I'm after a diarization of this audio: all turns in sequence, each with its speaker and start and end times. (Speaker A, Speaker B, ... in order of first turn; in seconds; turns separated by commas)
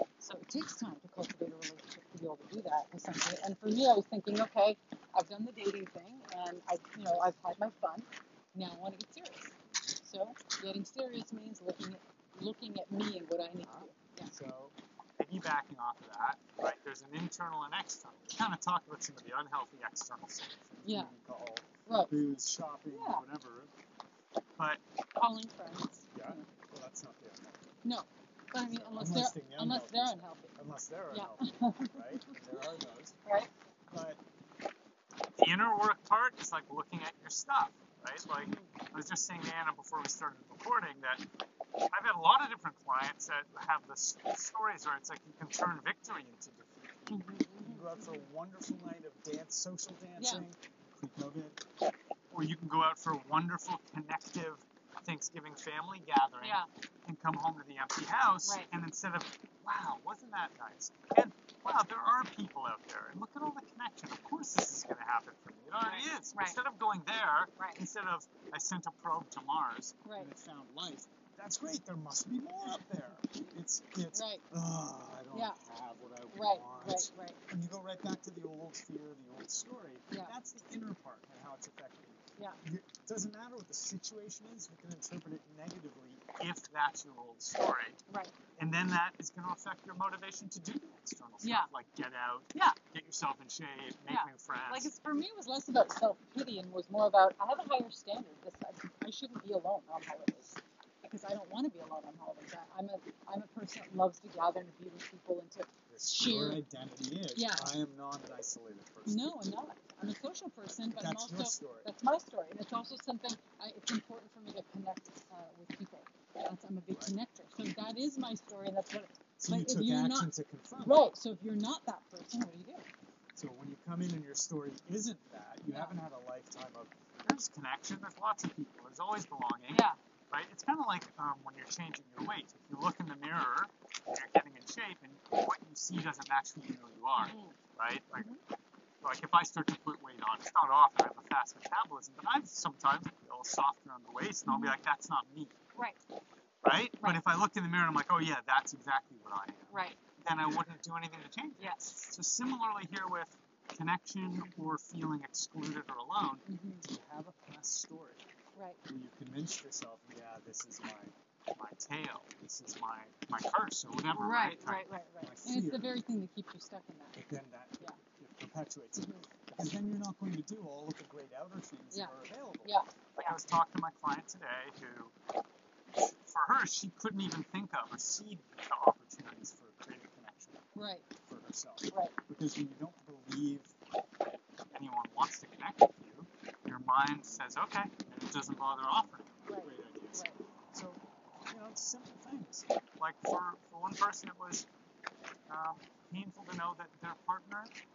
Speaker A: 0.2-14.3, Speaker B: 13.6-23.7, Speaker A: 20.8-21.1, Speaker A: 21.9-22.1, Speaker A: 22.9-23.2, Speaker B: 24.6-24.8, Speaker A: 25.2-26.5, Speaker B: 26.1-27.7, Speaker A: 27.8-30.6, Speaker B: 28.6-33.2, Speaker A: 31.1-32.6, Speaker A: 33.2-33.5, Speaker B: 33.9-34.2, Speaker B: 35.4-41.2, Speaker A: 38.3-38.7, Speaker B: 41.9-51.6, Speaker A: 47.1-48.2, Speaker A: 50.2-50.5, Speaker B: 52.3-88.0, Speaker A: 56.4-56.7, Speaker A: 58.4-58.7, Speaker A: 65.8-66.6, Speaker A: 70.0-70.3, Speaker A: 72.6-73.5, Speaker A: 74.1-74.4, Speaker A: 75.3-75.6, Speaker A: 76.3-77.4, Speaker A: 88.1-88.3, Speaker B: 88.6-94.9, Speaker A: 91.4-91.7, Speaker A: 92.5-92.8, Speaker A: 94.1-106.6, Speaker B: 105.9-109.3, Speaker A: 107.3-107.8, Speaker A: 109.1-122.9, Speaker B: 110.9-111.9, Speaker B: 116.9-117.2, Speaker B: 119.4-121.1, Speaker B: 123.4-138.3, Speaker A: 125.7-126.0, Speaker A: 129.7-130.0, Speaker A: 137.2-137.6, Speaker B: 139.0-145.5, Speaker A: 144.5-144.8, Speaker B: 146.6-158.2, Speaker A: 149.7-150.0, Speaker A: 151.6-152.1, Speaker A: 156.5-156.8, Speaker A: 158.6-158.8, Speaker B: 158.9-165.9, Speaker A: 164.1-167.2, Speaker B: 167.2-175.1, Speaker A: 169.0-169.3, Speaker A: 171.9-173.3, Speaker B: 176.0-180.7, Speaker A: 180.8-181.1, Speaker B: 181.3-183.7, Speaker A: 181.9-182.2, Speaker B: 184.7-194.7, Speaker A: 189.5-190.4, Speaker B: 195.5-197.7